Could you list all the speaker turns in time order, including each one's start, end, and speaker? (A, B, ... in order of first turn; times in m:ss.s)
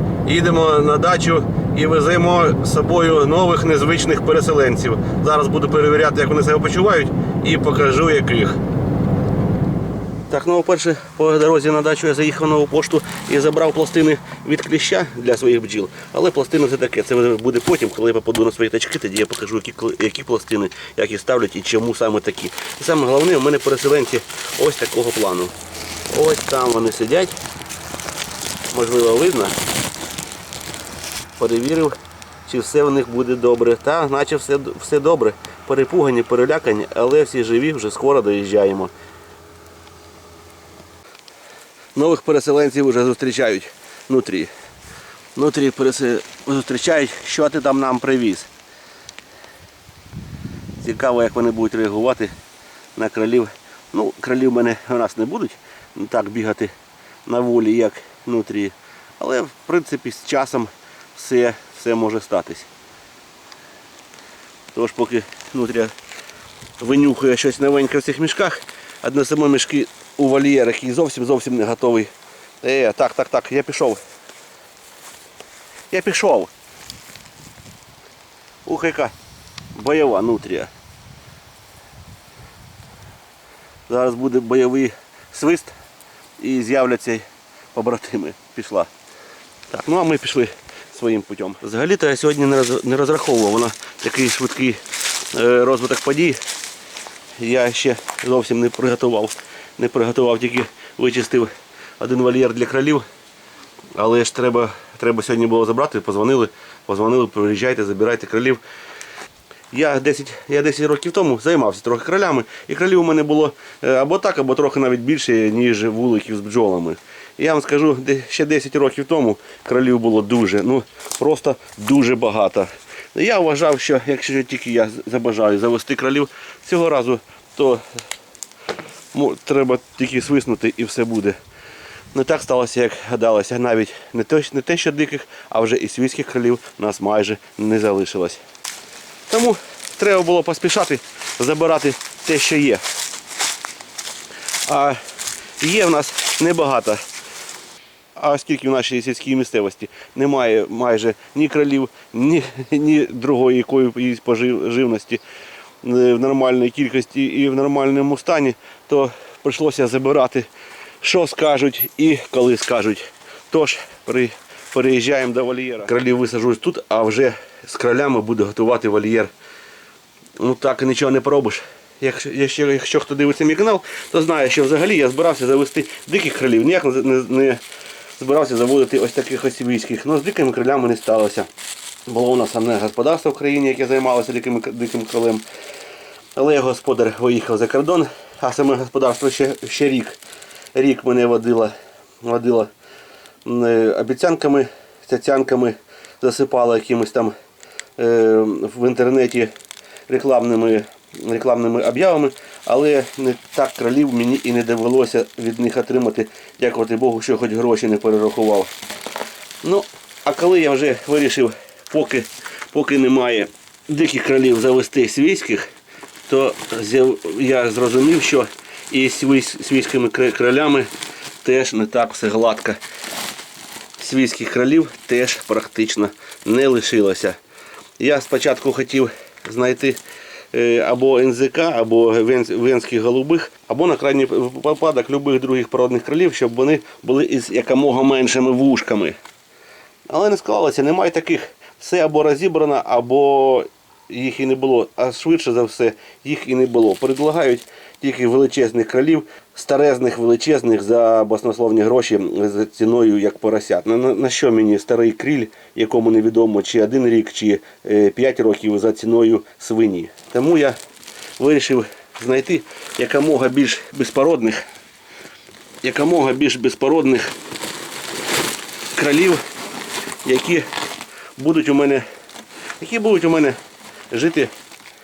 0:00.2-0:08.6 A
0:10.3-0:25.5 A
0:26.1-0:27.3 A
0:28.7-0:29.6 A
0:31.4-0:31.9 A
0:32.4-0:38.9 A
0:41.9-0:44.5 A
0:45.4-0:48.5 A
0:50.8-0:52.3 A
0:52.9-0:56.7 A
0:57.2-1:02.7 A
1:04.7-1:05.9 A
1:06.8-1:12.1 A
1:12.6-1:14.0 A
1:15.9-1:16.5 A
1:18.6-1:19.1 A
1:19.7-1:20.7 A
1:23.9-1:25.7 A
1:26.4-1:28.9 A
1:29.7-1:36.4 A
1:37.4-1:43.0 A
1:43.9-1:48.6 A
1:49.7-2:07.8 A
2:09.1-2:11.4 A
2:12.1-2:18.4 A
2:19.3-2:22.8 A
2:24.6-2:25.0 A
2:25.6-2:27.0 A
2:28.2-2:35.2 A
2:35.8-2:40.5 A
2:41.0-2:49.3 A
2:50.4-2:57.6 A
2:58.2-3:01.5 A
3:02.1-3:05.4 A
3:06.4-3:10.2 A
3:10.7-3:12.7 A
3:13.4-3:17.3 A
3:18.0-3:19.5 A
3:20.1-3:28.7 A
3:29.6-3:35.7 A
3:36.3-3:40.9 A
3:41.4-3:42.8 A
3:44.0-3:47.4 A
3:48.0-3:50.0 A
3:50.5-3:59.2 A
4:00.1-4:20.8 A
4:21.4-4:24.6 A
4:25.8-4:27.3 A
4:29.0-4:29.4 A
4:30.2-4:30.6 A
4:31.4-4:32.0 A
4:32.8-4:33.6 A
4:34.1-4:34.5 A